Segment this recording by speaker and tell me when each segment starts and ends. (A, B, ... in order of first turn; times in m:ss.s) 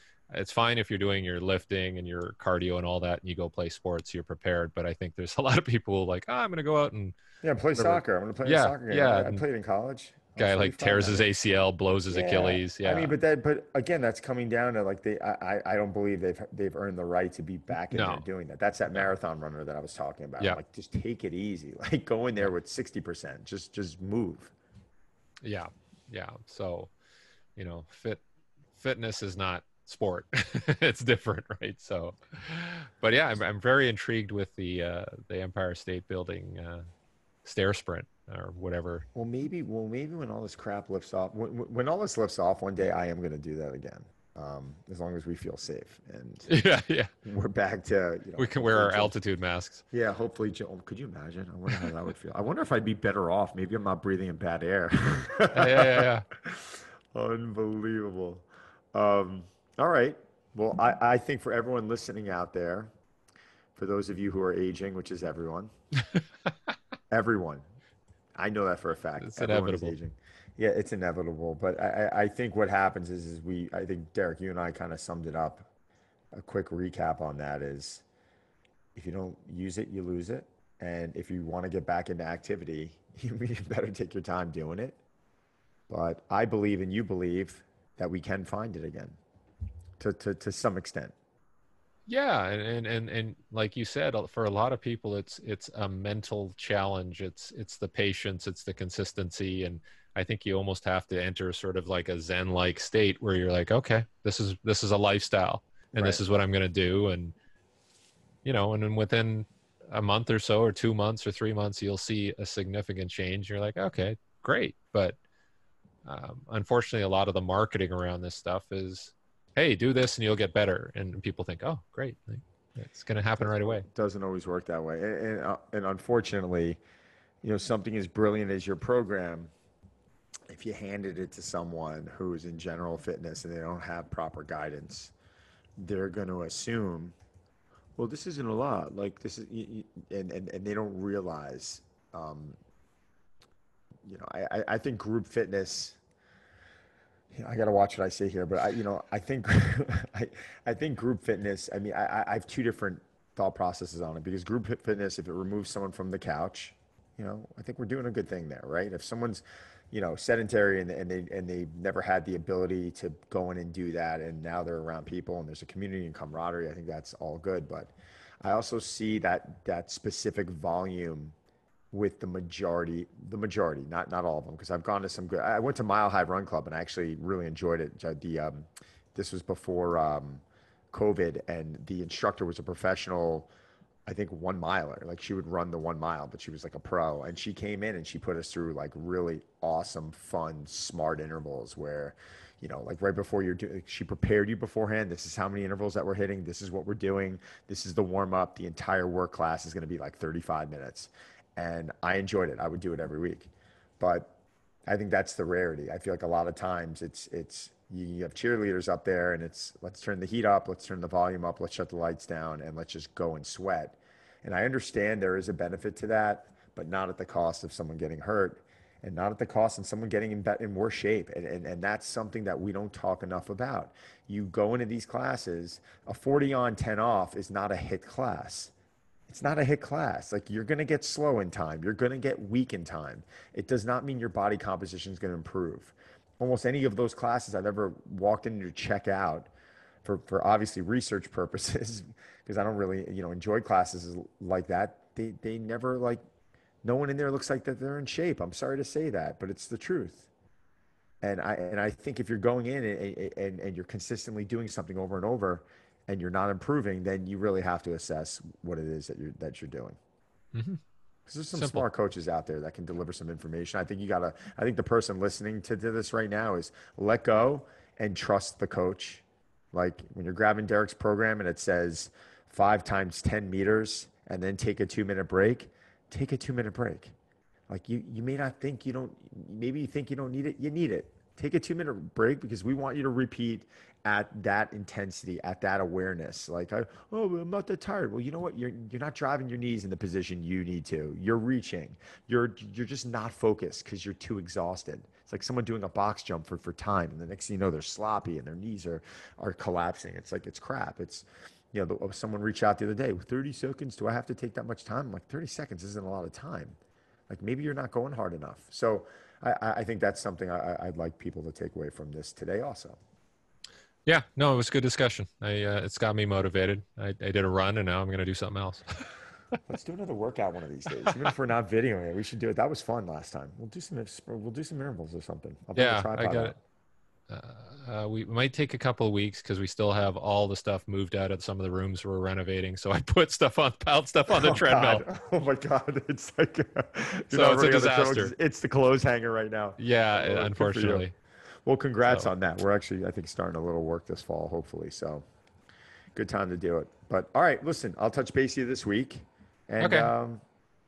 0:00.3-0:07.2 A
0:07.4-0:11.3 B
0:07.8-0:09.4 A
0:10.4-0:13.2 A
0:12.1-0:24.5 B
0:17.9-0:18.2 A
0:25.4-0:26.9 A
0:27.6-0:28.2 A
0:28.8-0:36.8 A
0:37.4-0:39.1 A
0:39.2-0:46.5 B
0:46.5-0:47.1 A
0:47.2-0:49.1 B
0:48.4-0:49.8 A
0:49.9-1:02.9 B
0:55.5-0:56.3 A
1:03.8-1:05.7 B
1:07.1-1:07.6 B
1:08.4-1:15.7 B
1:09.2-1:10.0 A
1:16.3-1:18.0 B
1:19.0-1:25.0 B
1:25.9-1:29.2 B
1:30.0-1:31.1 B
1:32.1-1:47.3 A
1:45.9-1:46.2 B
1:48.4-1:55.2 A
1:56.0-2:03.9 A
2:03.4-2:06.8 B
2:07.4-2:09.5 B
2:10.5-2:15.1 B
2:15.8-2:17.2 B
2:18.0-2:22.6 B
2:24.0-2:26.0 B
2:27.3-2:51.4 B
2:51.9-3:03.5 B
3:04.1-3:24.3 B
3:24.9-3:48.7 B
3:49.3-3:59.5 B
4:00.0-4:06.2 B
4:06.8-4:10.3 B
4:11.2-4:20.0 B
4:20.5-4:20.8 A
4:21.3-4:37.1 B
4:21.5-4:21.9 A
4:37.7-5:06.8 B
5:07.3-5:13.0 B
5:14.1-5:19.1 A
5:19.7-5:26.6 B
5:25.8-5:26.6 A
5:27.3-5:35.0 A
5:34.3-5:41.1 B
5:37.3-5:38.3 A
5:39.8-5:41.1 A
5:41.6-5:45.2 B
5:46.2-5:50.4 B
5:49.8-5:50.1 A